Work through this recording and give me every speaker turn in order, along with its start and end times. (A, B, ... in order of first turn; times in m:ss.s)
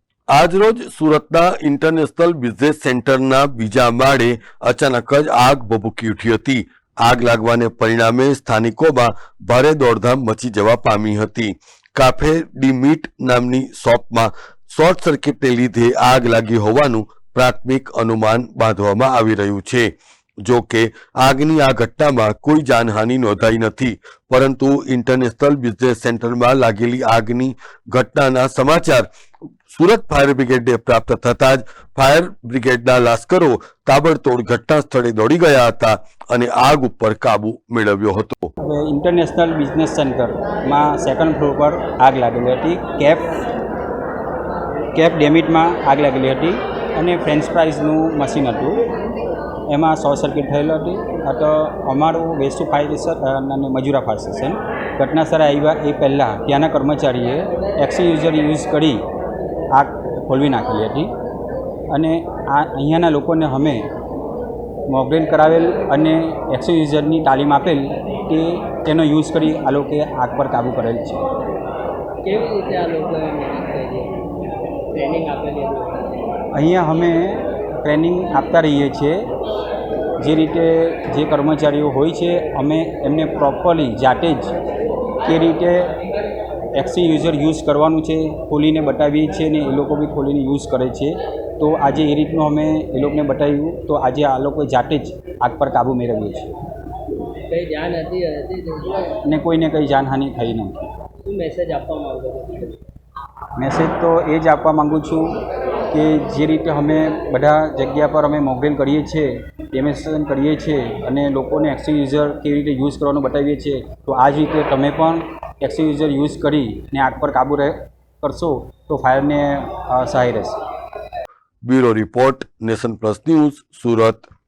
0:00.3-0:19.9 A
0:20.4-0:29.1 A
0:29.7-0:38.5 A
0:38.6-0:43.4 B
0:44.9-0:48.8 B
0:49.7-0:59.0 B
0:59.7-1:01.1 B
1:01.9-1:03.9 B
1:04.9-1:11.2 B
1:12.2-1:14.2 C
1:14.9-1:16.2 C
1:16.5-1:19.2 B
1:20.2-1:24.5 B
1:25.2-1:25.9 B
1:26.7-1:36.5 B
1:37.5-1:39.1 C
1:39.2-1:40.9 B
1:41.2-1:42.8 C
1:43.6-1:45.4 B
1:45.9-2:00.6 B
2:01.6-2:04.2 A